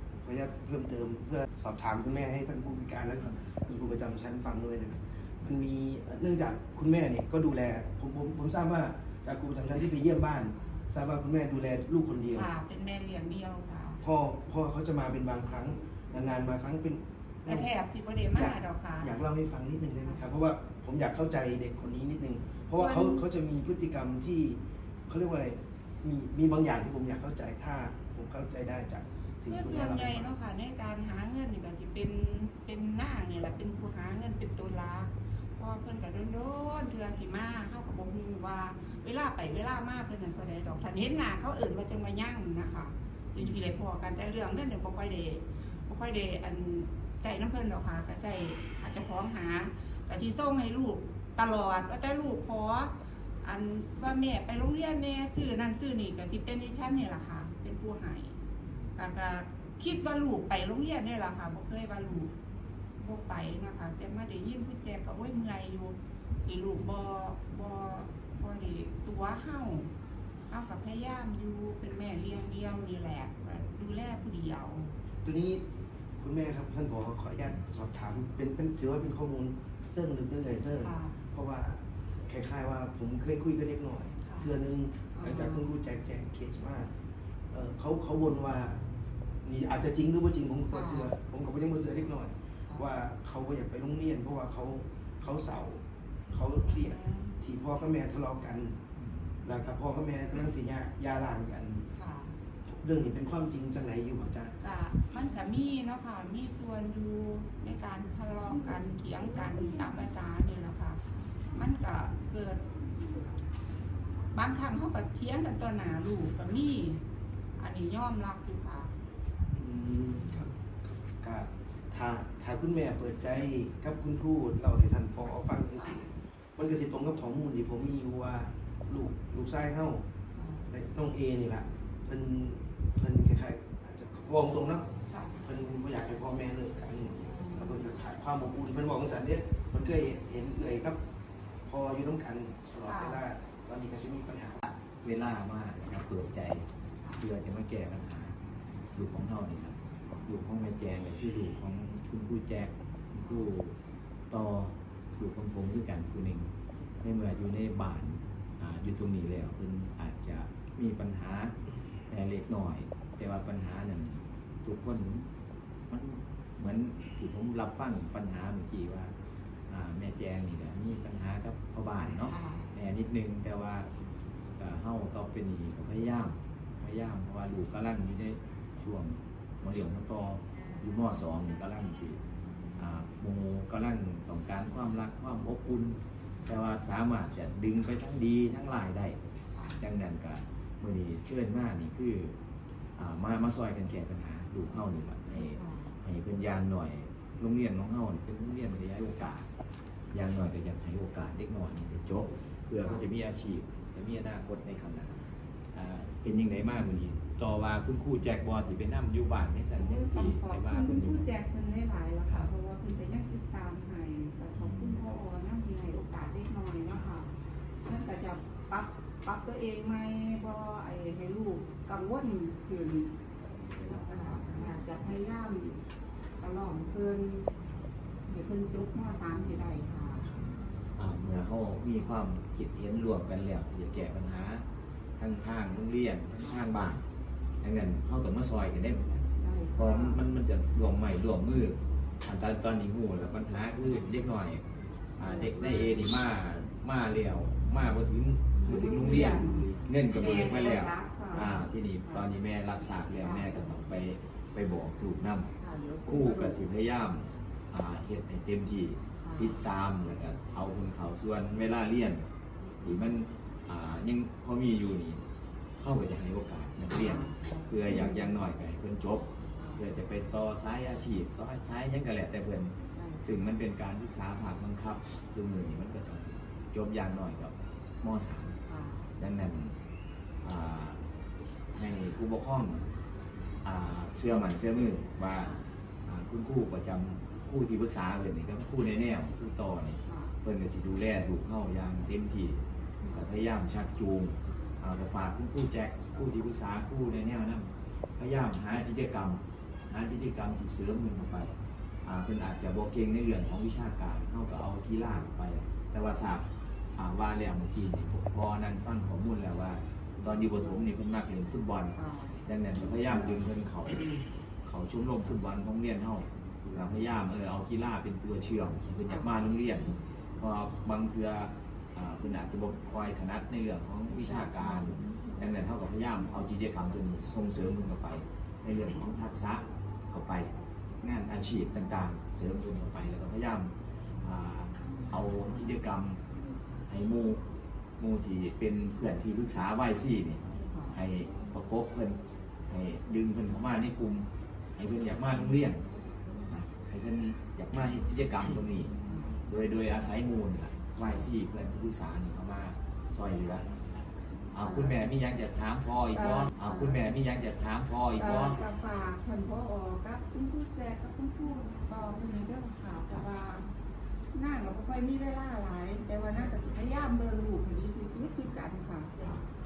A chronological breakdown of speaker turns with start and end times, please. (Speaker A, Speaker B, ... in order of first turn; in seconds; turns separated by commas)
Speaker A: 0.2-12.5, Speaker B: 10.5-10.8, Speaker B: 12.3-14.0, Speaker A: 14.0-17.7, Speaker B: 17.4-19.1, Speaker A: 18.3-30.3, Speaker B: 22.7-23.2, Speaker B: 29.5-52.9, Speaker B: 53.4-58.4, Speaker B: 59.0-62.3, Speaker B: 63.0-69.9, Speaker B: 70.5-74.9, Speaker A: 75.2-75.6, Speaker A: 76.2-86.9, Speaker B: 80.8-81.2, Speaker B: 84.2-84.5, Speaker B: 85.1-85.7, Speaker A: 87.5-88.8, Speaker A: 89.4-98.8, Speaker B: 90.7-91.1, Speaker B: 96.6-97.3, Speaker C: 99.0-99.3, Speaker A: 99.4-101.9, Speaker B: 101.9-102.4, Speaker A: 102.7-104.5, Speaker B: 104.6-112.6, Speaker B: 114.3-117.0, Speaker B: 117.6-118.9, Speaker A: 119.5-120.5, Speaker A: 121.2-130.0, Speaker B: 130.3-130.7, Speaker A: 130.7-134.9, Speaker B: 135.1-135.4, Speaker A: 135.4-141.0, Speaker B: 137.4-137.7, Speaker A: 141.7-144.7, Speaker B: 142.9-143.2, Speaker C: 145.0-148.4, Speaker C: 148.9-153.7, Speaker B: 150.0-150.3, Speaker B: 153.1-153.5, Speaker C: 154.3-161.6, Speaker C: 162.1-165.3, Speaker C: 165.9-169.1, Speaker C: 169.7-173.9, Speaker B: 172.3-172.7, Speaker C: 174.6-182.2, Speaker C: 182.8-189.2, Speaker C: 189.8-192.4, Speaker C: 192.9-199.5, Speaker B: 194.7-195.9, Speaker C: 200.1-211.3, Speaker B: 209.7-217.3, Speaker C: 214.5-215.0, Speaker B: 217.8-223.1, Speaker B: 223.8-225.8, Speaker B: 226.4-227.5, Speaker B: 228.3-230.3, Speaker C: 231.0-234.7, Speaker C: 235.2-237.0, Speaker C: 237.6-244.6, Speaker B: 239.3-240.2, Speaker C: 245.2-255.5, Speaker B: 245.2-246.0, Speaker B: 248.6-252.3, Speaker B: 253.2-253.7, Speaker B: 255.6-256.6, Speaker C: 256.1-262.3, Speaker B: 259.2-259.6, Speaker B: 262.7-263.0, Speaker C: 262.8-265.2, Speaker C: 265.8-278.6, Speaker B: 266.9-268.3, Speaker B: 269.6-269.8, Speaker B: 272.9-273.2, Speaker B: 278.6-279.1, Speaker C: 279.2-279.8, Speaker C: 280.4-281.0, Speaker C: 281.7-282.9, Speaker C: 283.6-285.5, Speaker B: 285.3-285.7, Speaker C: 286.0-336.2, Speaker B: 290.1-290.3, Speaker B: 293.0-293.3, Speaker B: 294.4-294.8, Speaker B: 310.2-310.9, Speaker B: 311.9-312.4, Speaker B: 319.1-319.4, Speaker B: 324.2-325.3, Speaker C: 336.9-337.4, Speaker C: 338.0-345.9, Speaker B: 340.5-341.0, Speaker C: 346.8-348.9, Speaker B: 349.0-349.4, Speaker C: 349.5-353.6, Speaker C: 354.5-358.6, Speaker B: 354.6-355.0, Speaker B: 356.1-357.0, Speaker B: 358.1-363.6, Speaker B: 364.3-369.2